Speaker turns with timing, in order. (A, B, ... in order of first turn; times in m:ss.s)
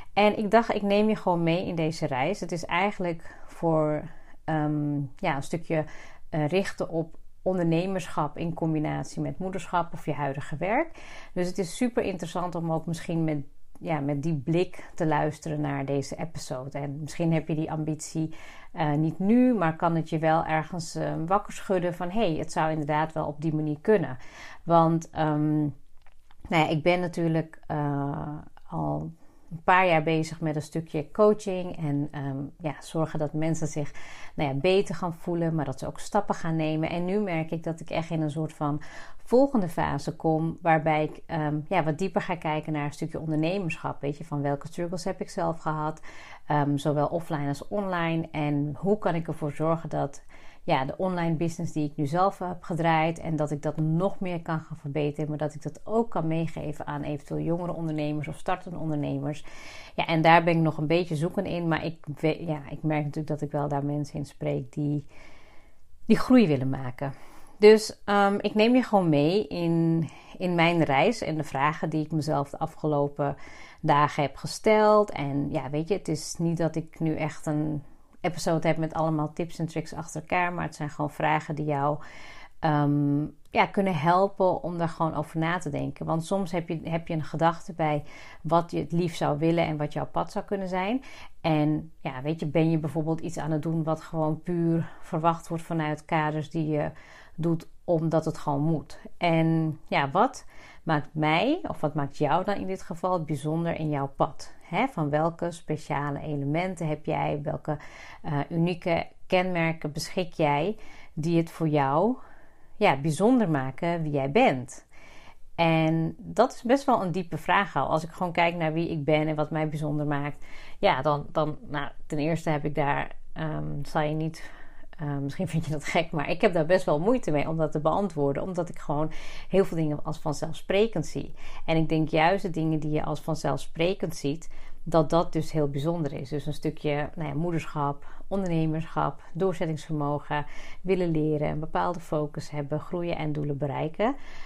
0:00.2-0:25.7 A
0:26.5-0:29.1 A
0:29.6-0:59.4 A
1:00.0-1:05.0 A
1:06.1-1:22.0 A
1:22.6-1:52.2 A
1:52.8-1:54.8 A
1:55.6-2:04.5 A
2:05.0-2:24.1 A